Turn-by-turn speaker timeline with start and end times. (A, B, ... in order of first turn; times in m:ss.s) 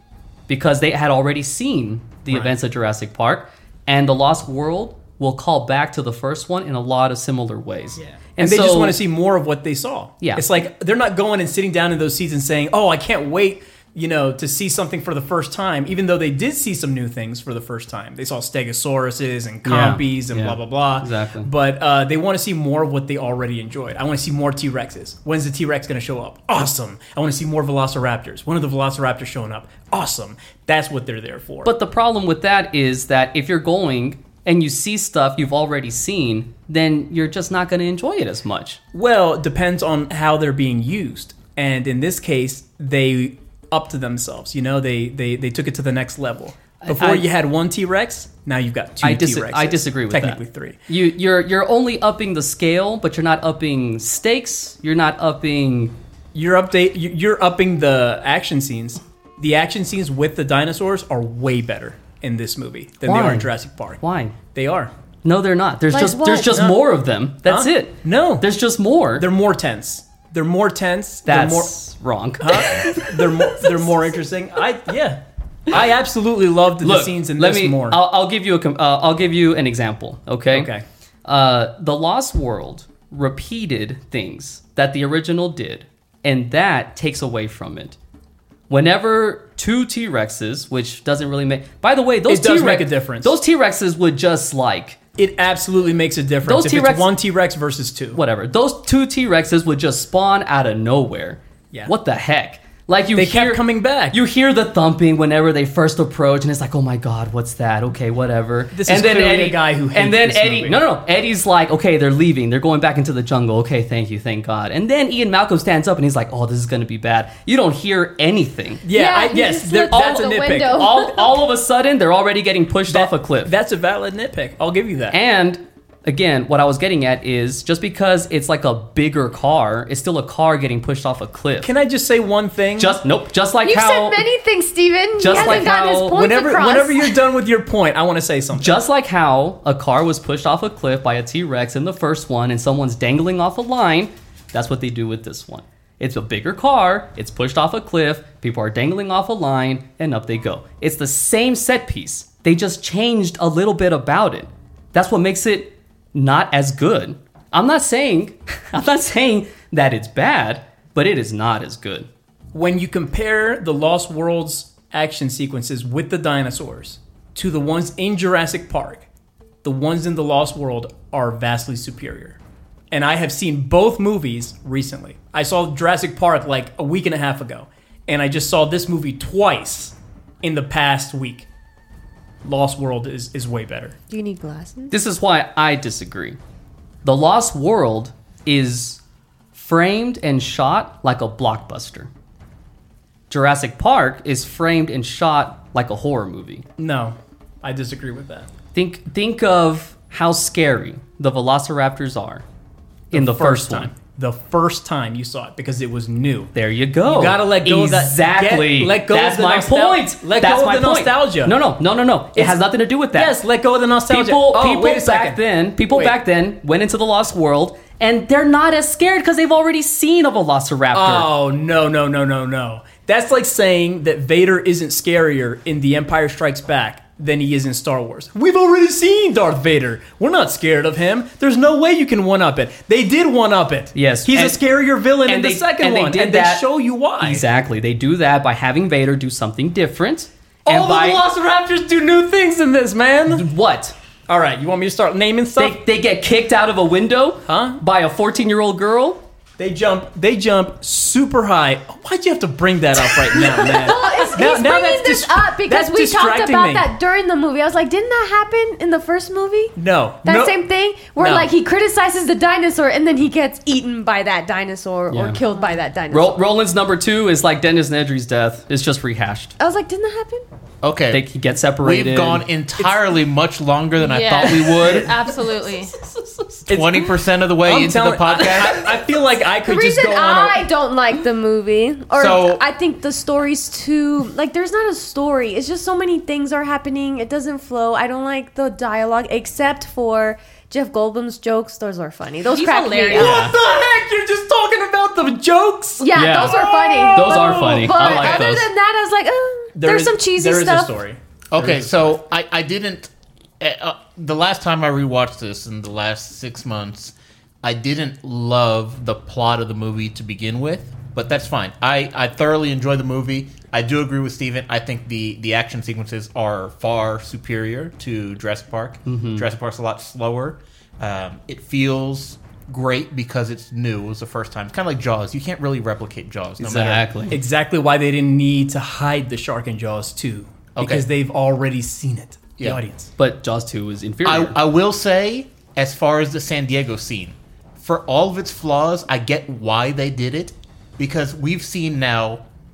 0:00.5-0:09.0 A
0:02.3-0:02.5 B
0:08.4-0:31.7 B
0:10.2-0:10.5 A
0:19.6-0:21.5 A
0:31.6-0:38.8 A
0:38.9-0:50.8 B
0:46.8-0:47.2 A
0:49.0-0:55.9 A
0:56.3-1:04.0 B
1:03.0-1:04.4 A
1:04.5-1:04.9 B
1:05.2-1:09.3 A
1:05.9-1:06.6 C
1:06.4-1:06.8 B
1:07.4-1:08.5 B
1:09.2-1:11.7 B
1:11.2-1:13.7 A
1:12.4-1:18.0 B
1:16.8-1:20.7 A
1:20.5-1:20.8 B
1:21.2-1:28.0 A
1:28.7-1:35.0 A
1:32.3-1:33.4 B
1:35.2-1:38.2 B
1:36.4-1:37.1 A
1:38.1-1:58.8 A
1:43.1-1:44.2 B
1:48.7-1:50.8 B
1:58.8-2:01.0 B
1:58.9-2:01.3 C
1:59.9-2:03.5 A
2:02.9-2:05.2 B
2:05.1-2:11.7 A
2:11.6-2:13.0 B
2:12.8-2:14.2 A
2:13.6-2:17.2 C
2:15.2-2:16.2 A
2:15.3-2:18.8 B
2:18.5-2:42.1 A
2:42.5-2:49.0 B
2:49.6-2:52.4 B
2:52.9-3:01.5 B
3:02.4-3:04.0 B
3:04.1-3:05.0 C
3:04.9-3:06.4 A
3:07.0-3:09.0 A
3:09.5-3:12.1 A
3:13.3-3:16.6 A
3:16.8-3:18.5 B
3:18.7-3:22.4 A
3:23.1-3:23.9 A
3:23.1-3:26.5 B
3:26.5-3:33.3 A
3:27.0-3:31.6 B
3:32.3-3:32.6 B
3:33.1-3:36.2 B
3:34.1-3:41.3 A
3:40.9-3:57.4 B
3:53.9-3:54.6 A
3:55.2-3:56.7 A
3:57.2-4:01.2 A
4:00.6-4:03.5 B
4:03.3-4:03.9 A
4:04.3-4:05.8 B
4:05.6-4:09.2 A
4:07.5-4:07.8 B
4:09.6-4:16.9 B
4:13.4-4:26.4 C
4:19.8-4:20.6 B
4:21.2-4:21.5 B
4:25.1-4:25.4 A
4:25.5-4:25.8 D
4:26.1-4:29.6 A
4:29.6-4:30.4 C
4:30.8-4:31.2 E
4:31.1-4:32.4 A
4:31.8-4:35.1 E
4:34.0-4:35.9 D
4:34.3-4:35.2 A
4:36.0-4:36.6 A
4:36.7-4:37.0 B
4:36.7-4:38.8 E
4:37.6-4:40.6 B
4:38.6-4:38.8 D
4:39.6-4:53.5 C
4:42.1-4:42.6 E
4:52.4-4:53.3 D
4:53.1-4:58.5 B
4:53.2-4:53.5 A
4:56.0-5:00.9 C
4:56.1-4:58.7 A
4:59.7-5:02.1 B
5:01.5-5:27.0 E
5:19.0-5:19.5 A
5:26.6-5:27.3 A
5:27.3-5:33.1 B
5:30.8-5:31.0 E
5:33.2-5:34.6 A
5:34.2-5:42.4 E